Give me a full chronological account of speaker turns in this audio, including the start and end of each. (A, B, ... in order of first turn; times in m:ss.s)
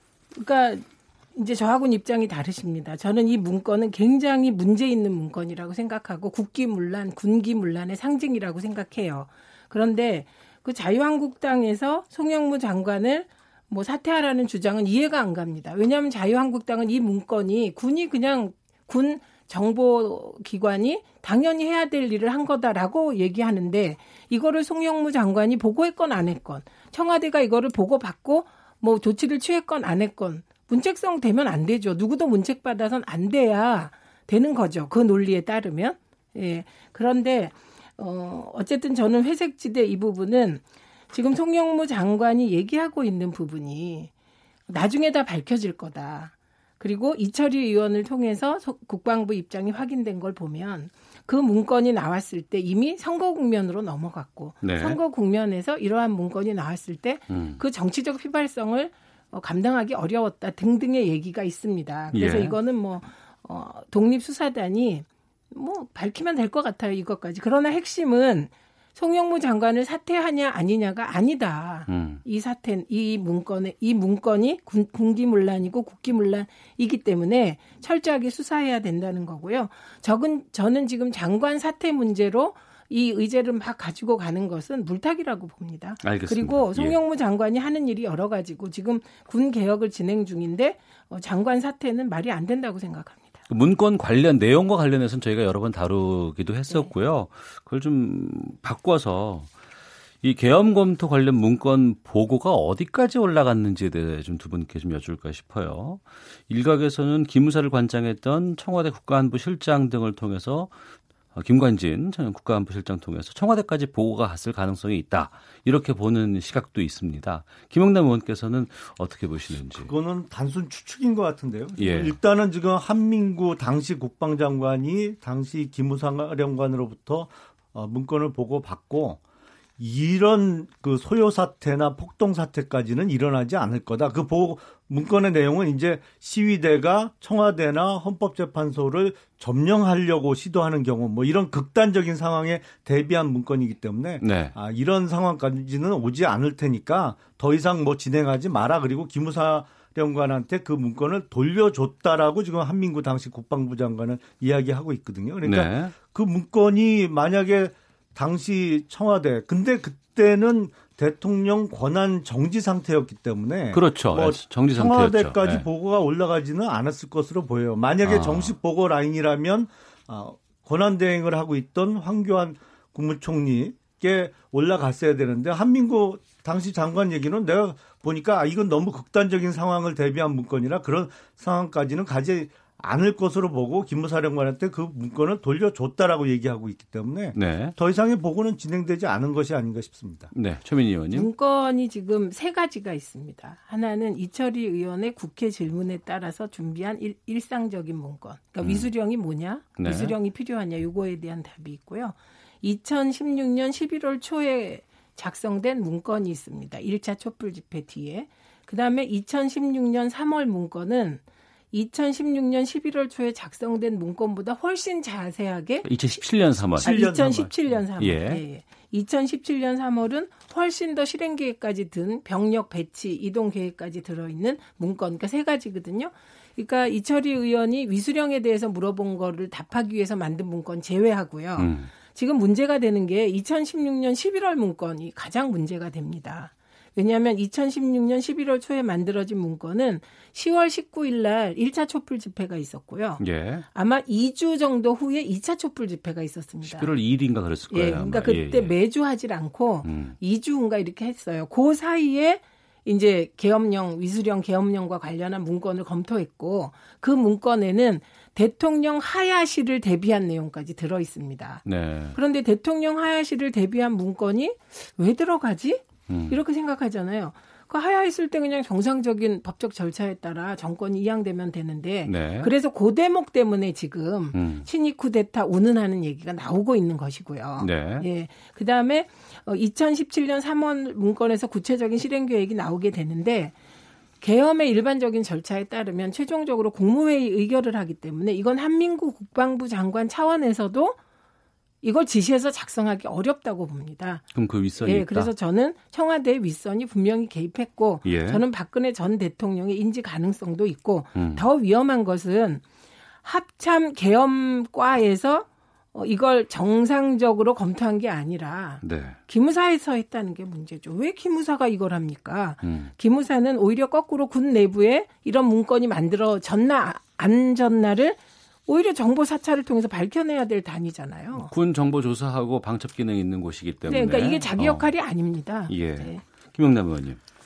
0:00.3-0:44.1 A
0:44.7-1:33.4 A
0:54.6-0:55.0 B
0:57.3-0:57.6 B
1:02.1-1:02.6 B
1:11.9-1:12.2 B
1:26.0-1:27.0 B
1:33.5-1:39.5 B
1:40.2-1:50.8 B
1:51.3-1:59.9 B
1:59.7-2:09.2 C
2:01.8-2:02.2 B
2:09.8-3:10.3 C
2:24.2-2:24.5 B
2:35.4-2:35.9 B
2:43.7-2:45.6 B
2:48.0-2:48.6 B
3:07.3-3:07.7 B
3:10.3-3:11.3 B
3:11.1-3:36.2 A
3:18.6-3:18.9 B
3:19.8-3:20.2 B
3:35.8-3:36.9 B
3:36.8-4:06.9 A
3:36.8-3:37.7 C
3:38.0-3:38.4 B
3:51.6-3:51.9 B
4:03.2-4:03.6 B
4:06.6-4:08.7 B
4:07.7-4:21.6 A
4:09.8-4:10.2 B
4:21.6-4:22.2 B
4:22.1-4:43.6 A
4:26.1-4:26.4 B
4:32.0-4:32.5 B
4:34.3-4:34.7 B
4:37.6-4:38.1 B
4:44.2-4:51.0 A
4:51.8-4:54.2 A
4:54.3-4:55.3 B
4:54.8-5:02.6 A
4:58.0-4:58.4 B
5:01.1-5:01.4 B
5:03.2-5:21.5 A
5:08.8-5:09.2 B
5:12.6-5:12.9 B
5:21.3-5:24.9 B
5:23.8-5:26.2 A
5:25.7-5:27.2 B